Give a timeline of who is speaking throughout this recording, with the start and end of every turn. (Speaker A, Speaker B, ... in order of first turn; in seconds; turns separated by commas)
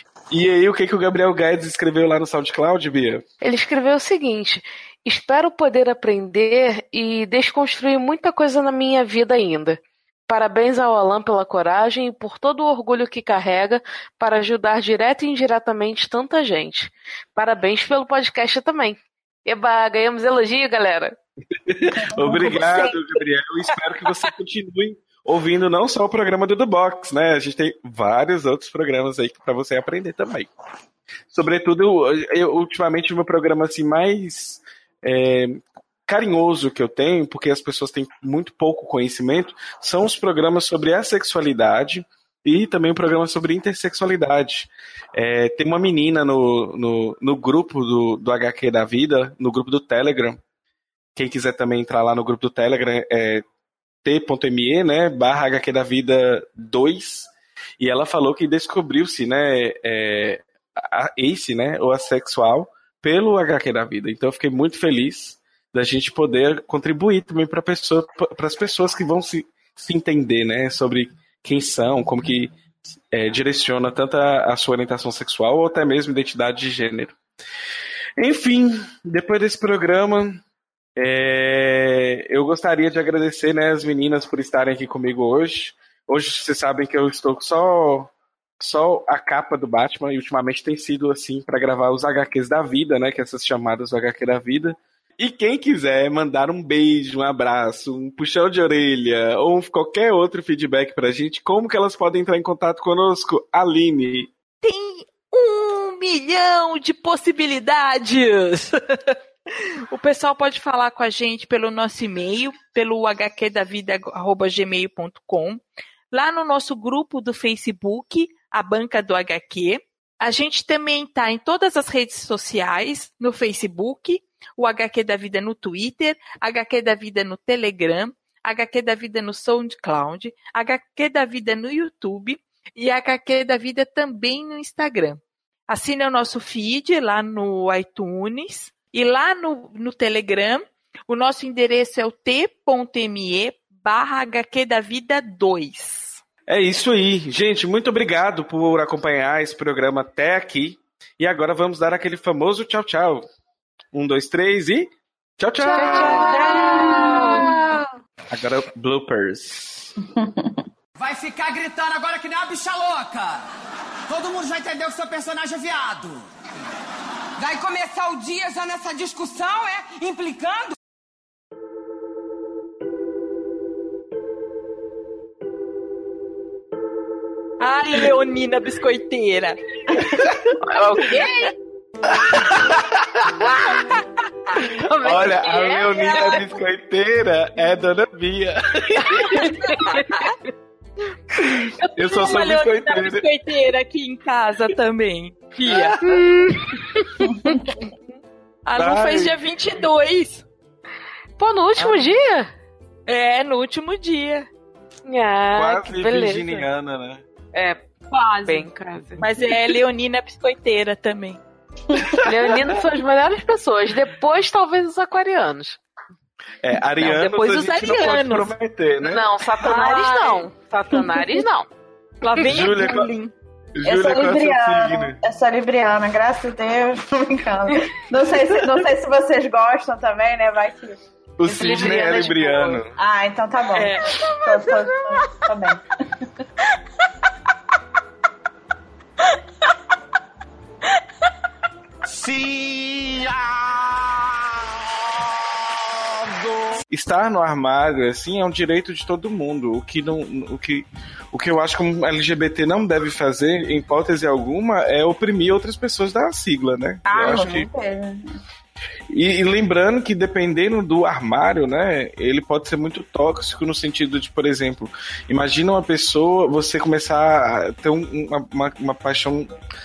Speaker A: 0.3-3.2, Speaker B: 3.4-21.1, Speaker A: 21.6-30.5, Speaker C: 22.2-22.6, Speaker B: 22.5-22.9, Speaker A: 31.3-50.4, Speaker A: 51.1-53.4, Speaker A: 54.0-72.6, Speaker A: 73.1-77.2, Speaker A: 78.2-80.4, Speaker A: 81.0-104.3, Speaker D: 104.6-146.2, Speaker A: 146.5-153.3, Speaker A: 153.9-156.7, Speaker D: 155.6-157.6, Speaker B: 155.7-157.8, Speaker C: 156.7-157.2, Speaker A: 158.3-159.9, Speaker C: 160.1-160.6, Speaker E: 161.0-163.4, Speaker E: 164.1-166.3, Speaker E: 167.4-170.7, Speaker D: 177.6-180.3, Speaker B: 180.6-181.5, Speaker B: 184.7-186.5, Speaker A: 185.0-189.4, Speaker D: 185.9-186.4, Speaker B: 189.2-190.2, Speaker D: 189.2-190.4, Speaker A: 191.4-193.2, Speaker D: 191.8-196.1, Speaker A: 195.7-196.0, Speaker B: 196.0-197.5, Speaker D: 198.7-200.4, Speaker A: 198.8-199.4, Speaker B: 201.4-202.5, Speaker D: 201.8-202.1, Speaker D: 203.1-204.5, Speaker B: 205.1-206.7, Speaker A: 205.5-207.2, Speaker B: 207.5-207.8, Speaker D: 208.1-211.4, Speaker B: 208.4-209.3, Speaker A: 212.2-212.5, Speaker B: 212.2-215.8, Speaker A: 216.6-219.3, Speaker D: 217.0-218.5, Speaker B: 219.0-221.7, Speaker D: 219.6-220.6, Speaker D: 222.2-223.3, Speaker A: 222.5-223.1, Speaker A: 223.8-225.2, Speaker C: 223.8-231.0, Speaker A: 231.4-232.9, Speaker B: 231.4-232.8, Speaker C: 233.0-235.8, Speaker D: 233.7-234.7, Speaker E: 242.1-244.3, Speaker E: 246.2-246.8, Speaker A: 246.9-257.7, Speaker C: 257.1-258.4, Speaker A: 259.1-269.5